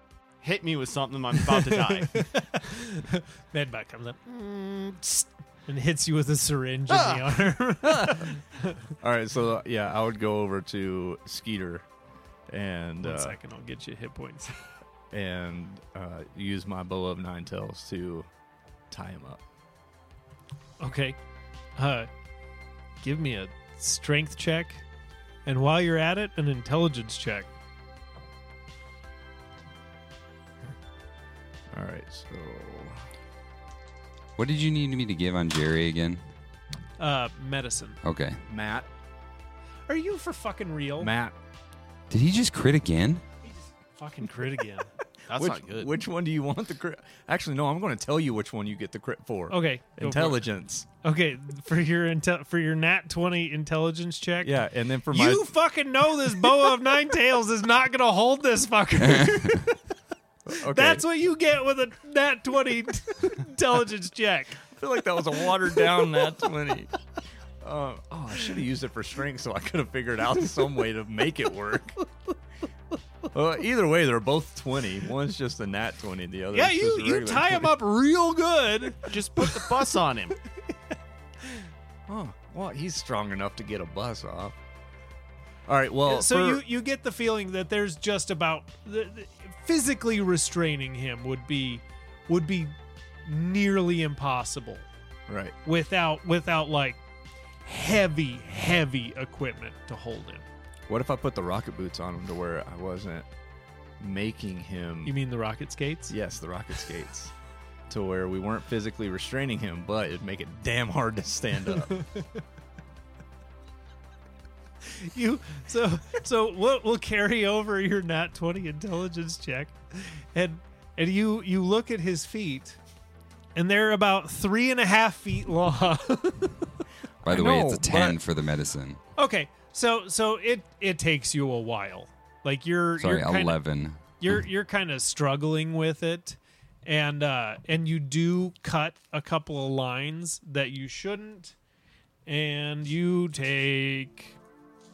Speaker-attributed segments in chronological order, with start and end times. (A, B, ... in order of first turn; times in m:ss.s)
0:00.4-0:02.4 A
0:01.5-0:08.8 B
0:06.9-0:07.4 A
0:07.8-0:08.3 C
0:09.0-0:11.9 C
0:12.5-0:13.4 C
0:13.0-0:14.6 B
0:15.1-0:18.3 C
0:18.9-0:19.4 C
0:20.8-0:21.2 B
0:21.8-0:22.1 B
0:23.0-0:24.8 B
0:25.4-0:27.5 B
0:31.7-0:33.0 C
0:34.4-0:36.2 D
0:37.0-0:38.0 B
0:38.0-0:38.4 D
0:38.5-0:38.9 C
0:39.9-0:41.1 B
0:41.0-0:41.4 C
0:42.1-0:43.2 D
0:43.4-0:44.9 B
0:45.3-0:45.9 A
0:45.3-0:50.9 C
0:49.5-0:50.4 B
0:51.0-0:54.6 B
0:54.4-0:55.5 C
0:55.1-0:59.8 B
0:59.0-0:59.6 D
1:00.4-1:01.0 C
1:00.6-1:04.6 B
1:04.6-1:06.9 C
1:07.6-1:12.0 C
1:13.3-1:17.7 C
1:16.5-1:19.9 B
1:19.0-1:20.4 A
1:22.1-1:24.6 C
1:25.6-1:26.6 C
1:26.0-1:32.7 B
1:33.2-1:34.8 B
1:35.3-1:35.6 C
1:35.6-1:37.0 B
1:37.6-1:40.4 B
1:40.9-1:43.3 C
1:44.0-1:45.1 C
1:45.0-1:46.1 B
1:46.1-1:47.3 C
1:47.9-1:52.0 C
1:51.9-1:52.4 B
1:54.8-2:02.8 B
2:03.6-2:06.8 B
2:07.2-2:09.0 D
2:07.2-2:08.2 C
2:09.2-2:13.6 B
2:13.0-2:14.4 D
2:14.2-2:21.6 B
2:22.2-2:24.4 B